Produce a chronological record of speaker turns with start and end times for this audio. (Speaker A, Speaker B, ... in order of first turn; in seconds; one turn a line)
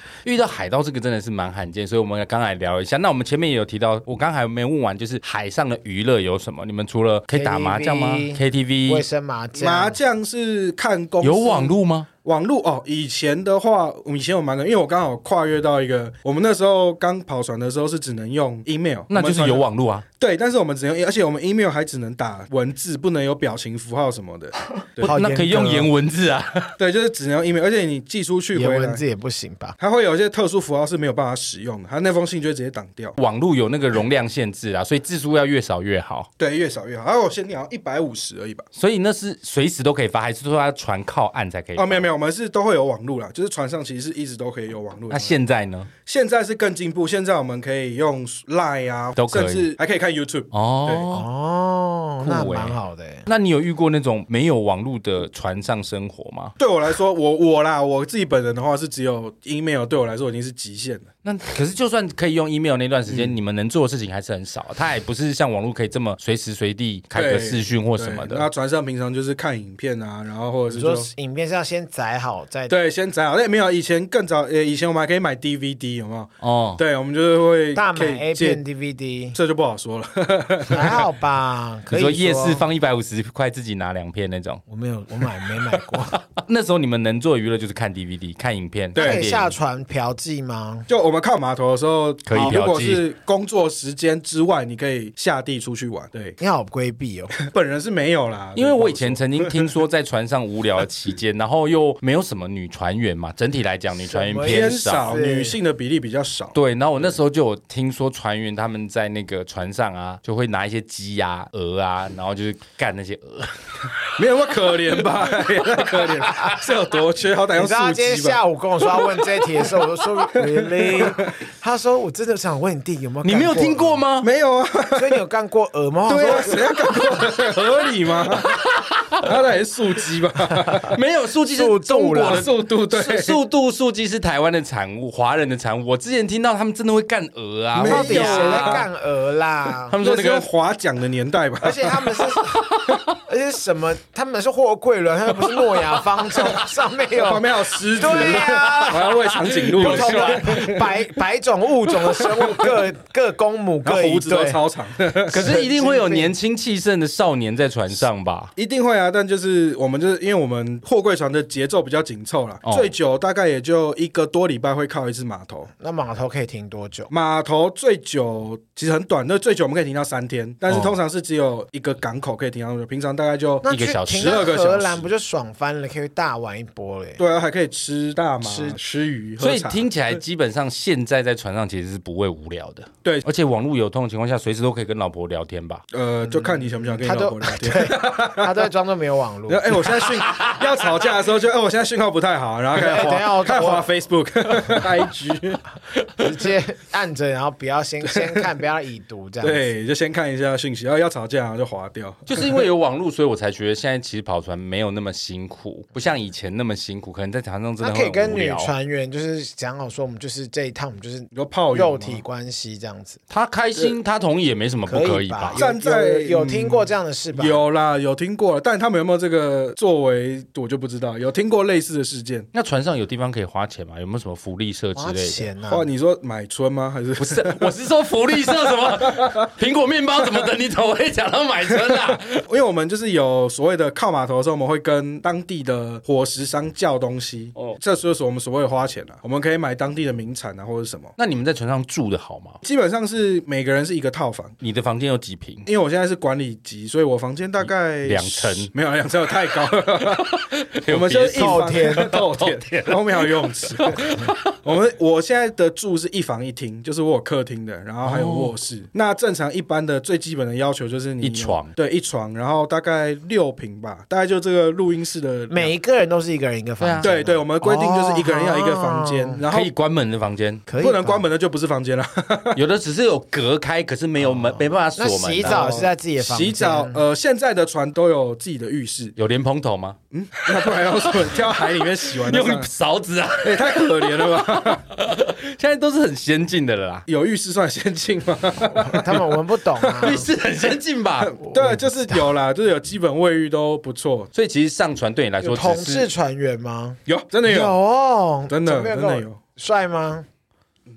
Speaker A: 0.2-9.1
Speaker B: 7.3-10.0
Speaker C: 9.6-19.6
Speaker A: 11.2-12.1
Speaker A: 19.1-20.0
Speaker C: 20.2-25.1
Speaker A: 25.0-26.7
Speaker B: 25.0-25.9
Speaker C: 26.8-29.0
Speaker B: 28.5-29.8
Speaker C: 29.8-33.1
Speaker A: 33.2-36.3
Speaker C: 36.4-38.6
Speaker A: 38.8-42.1
Speaker C: 41.8-45.4
Speaker A: 45.1-45.9
Speaker C: 46.0-51.0
Speaker A: 49.2-49.7
Speaker A: 50.5-51.2
Speaker B: 51.1-53.3
Speaker A: 52.2-56.5
Speaker C: 56.6-61.1
Speaker A: 61.2-68.5
Speaker C: 63.1-63.4
Speaker C: 67.1-71.1
Speaker B: 70.7-72.8
Speaker C: 72.7-78.6
Speaker A: 76.4-76.8
Speaker B: 77.7-79.4
Speaker C: 79.3-81.0
Speaker B: 80.7-82.6
Speaker A: 81.9-84.6
Speaker B: 84.7-86.2
Speaker A: 85.2-89.5
Speaker C: 88.9-89.3
Speaker B: 88.9-90.9
Speaker C: 90.9-96.4
Speaker A: 92.2-93.0
Speaker B: 96.4-97.3
Speaker C: 97.4-99.7
Speaker A: 98.5-105.2
Speaker B: 104.0-105.6
Speaker C: 104.4-107.1
Speaker A: 106.5-114.0
Speaker C: 114.2-121.3
Speaker A: 115.0-116.5
Speaker B: 117.5-124.0
Speaker A: 123.2-124.3
Speaker C: 124.2-125.2
Speaker B: 124.9-127.0
Speaker C: 126.1-128.6
Speaker A: 128.3-129.4
Speaker C: 129.2-131.0
Speaker A: 130.9-138.8
Speaker B: 131.5-132.5
Speaker C: 132.2-133.4
Speaker C: 137.7-138.9
Speaker B: 137.8-139.9
Speaker A: 139.9-140.4
Speaker C: 139.9-142.2
Speaker B: 141.6-154.6
Speaker A: 145.5-146.0
Speaker C: 147.1-150.9
Speaker A: 148.2-150.7
Speaker C: 152.2-152.7
Speaker C: 153.8-155.7
Speaker B: 155.3-156.3
Speaker A: 155.3-158.5
Speaker C: 158.6-165.7
Speaker A: 162.6-162.9
Speaker B: 165.8-167.1
Speaker C: 167.1-175.1
Speaker B: 173.6-177.2
Speaker A: 173.7-174.6
Speaker C: 177.2-179.9
Speaker B: 178.4-178.8
Speaker A: 179.4-185.8
Speaker C: 185.9-188.7
Speaker B: 186.3-190.1
Speaker C: 189.5-195.6
Speaker A: 190.2-190.7
Speaker B: 192.8-193.8
Speaker B: 196.2-199.7
Speaker C: 198.0-198.5
Speaker C: 199.4-202.6
Speaker A: 202.2-208.7
Speaker B: 207.8-213.2
Speaker C: 211.3-212.2
Speaker A: 213.3-215.6
Speaker B: 214.9-217.6
Speaker C: 215.5-222.5
Speaker A: 222.5-225.4
Speaker B: 224.9-225.9
Speaker C: 225.7-227.7
Speaker A: 227.2-232.4
Speaker C: 228.5-229.4
Speaker C: 231.7-241.1
Speaker A: 241.2-242.6
Speaker C: 242.6-244.6
Speaker A: 244.6-245.7
Speaker C: 245.7-265.7
Speaker A: 248.0-248.7
Speaker A: 249.9-254.5
Speaker B: 251.3-252.1
Speaker A: 258.0-258.5
Speaker A: 261.2-261.7
Speaker B: 265.5-269.4
Speaker A: 266.8-267.1
Speaker C: 267.0-269.7
Speaker A: 269.5-270.6
Speaker B: 270.7-271.2
Speaker C: 270.8-272.6
Speaker A: 272.6-275.7
Speaker B: 274.2-277.0
Speaker C: 275.4-279.1
Speaker A: 279.1-287.0
Speaker C: 280.1-282.7
Speaker C: 283.4-284.8
Speaker C: 287.1-289.3
Speaker B: 288.8-290.2
Speaker C: 289.8-290.1
Speaker A: 290.0-291.4
Speaker C: 291.3-294.3
Speaker B: 291.5-292.2
Speaker A: 294.3-296.1
Speaker B: 295.4-300.2
Speaker C: 297.1-297.8
Speaker C: 298.5-299.4